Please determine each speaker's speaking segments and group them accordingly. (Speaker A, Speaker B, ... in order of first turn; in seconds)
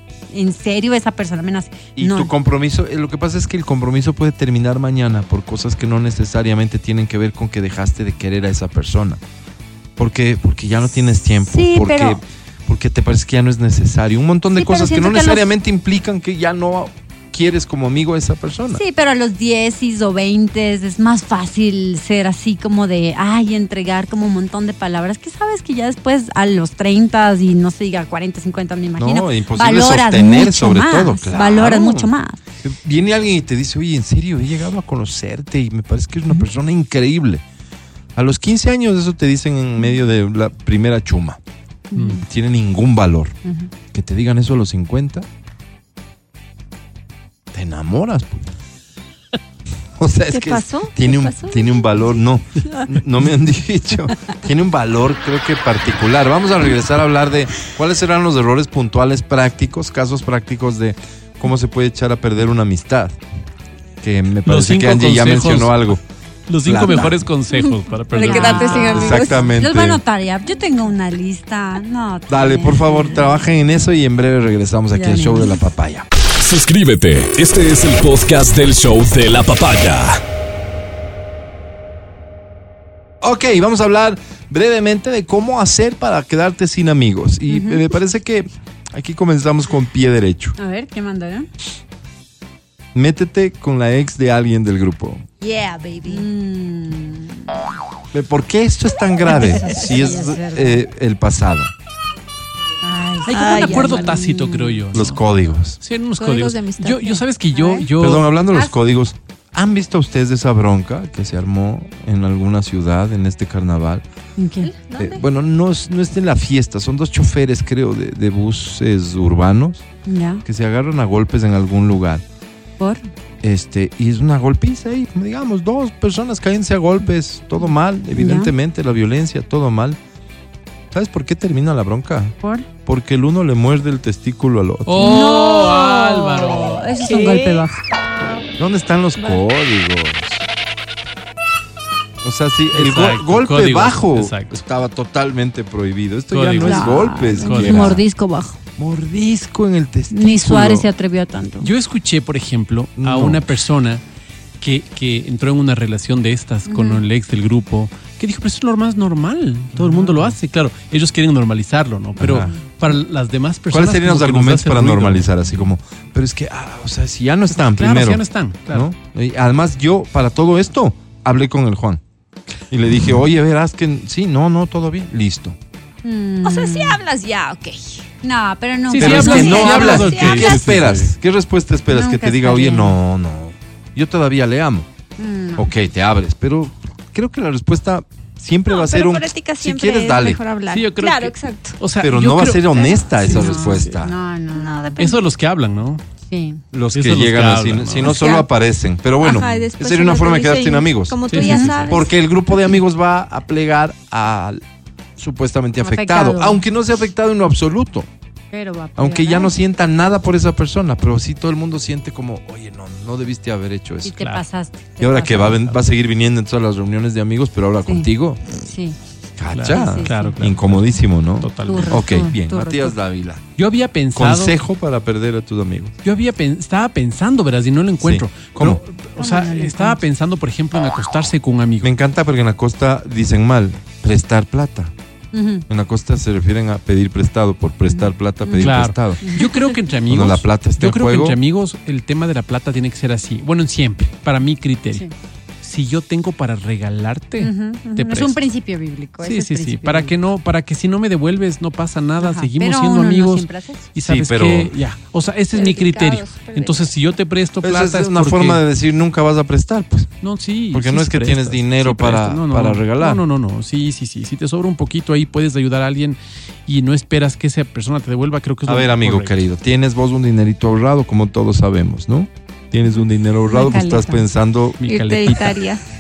Speaker A: 0.3-2.3, 11.5-12.2, 14.5-15.5, 18.7-32.4, 41.9-42.2, 68.1-73.4, 74.9-75.6, 87.5-87.8, 90.6-91.5, 96.1-97.5, 99.2-100.8, 102.8-104.8, 114.4-114.7, 120.1-120.4, 122.8-123.1, 128.2-128.5, 132.4-132.7, 135.0-137.7, 146.6-148.6, 150.1-151.7, 156.7-157.0, 176.0-177.0, 178.2-180.1, 181.9-183.0, 185.2-185.7, 193.3-195.0, 196.3-196.6, 201.3-201.9, 205.8-206.6, 208.5-209.5, 214.1-215.7, 218.6-219.0, 219.7-220.3, 221.7-223.0, 229.2-230.0, 235.3-235.7, 237.9-239.5, 247.4-250.2, 252.2-253.9, 273.5-274.3
Speaker B: 2.0-9.2, 10.0-18.8, 29.0-37.4, 38.1-41.4, 42.2-43.4, 43.9-45.3, 47.5-48.5, 50.0-63.2, 64.0-66.0, 66.6-67.3, 68.9-70.0, 72.3-76.1, 83.2-90.6, 92.9-95.2, 98.1-101.7, 104.9-105.8, 108.0-114.0, 115.0-119.8, 120.5-122.2, 123.4-130.0, 130.9-135.1, 138.6-140.4, 142.2-148.0, 148.8-150.9, 153.0-153.5, 159.8-160.3, 162.2-162.5, 163.7-172.0, 172.7-175.6, 179.0-184.9, 185.6-190.4, 192.0-194.1, 196.7-201.2, 201.9-204.6, 205.2-208.1, 209.0-214.2, 215.0-218.4, 219.4-223.5, 224.2-225.9, 228.0-228.8, 231.8-234.9, 235.7-239.2, 240.1-241.4, 254.0-254.7, 257.6-260.1, 260.7-263.2, 268.7-274.9
Speaker C: 42.0-42.2, 64.5-65.9, 66.5-69.1, 103.3-105.2, 105.8-108.3, 134.9-136.9, 142.7-144.6, 146.3-147.9, 151.6-154.0, 154.6-165.3, 167.5-168.9, 178.9-181.1, 190.7-193.9, 195.0-196.0, 196.9-198.2, 201.3-201.8, 219.5-222.1, 223.6-224.6, 226.0-231.9, 238.6-245.1, 245.6-248.4, 249.2-258.6, 260.2-269.4, 274.8-275.4
Speaker D: 50.3-52.9, 67.6-69.5, 95.4-96.3, 99.4-99.8, 103.3-104.2, 106.2-107.9, 114.6-115.2, 137.0-137.7, 176.4-178.1, 179.2-180.6, 188.7-191.8, 194.5-195.3, 198.1-198.4, 199.2-202.2, 255.5-256.9, 274.9-275.8
Speaker E: 76.4-80.2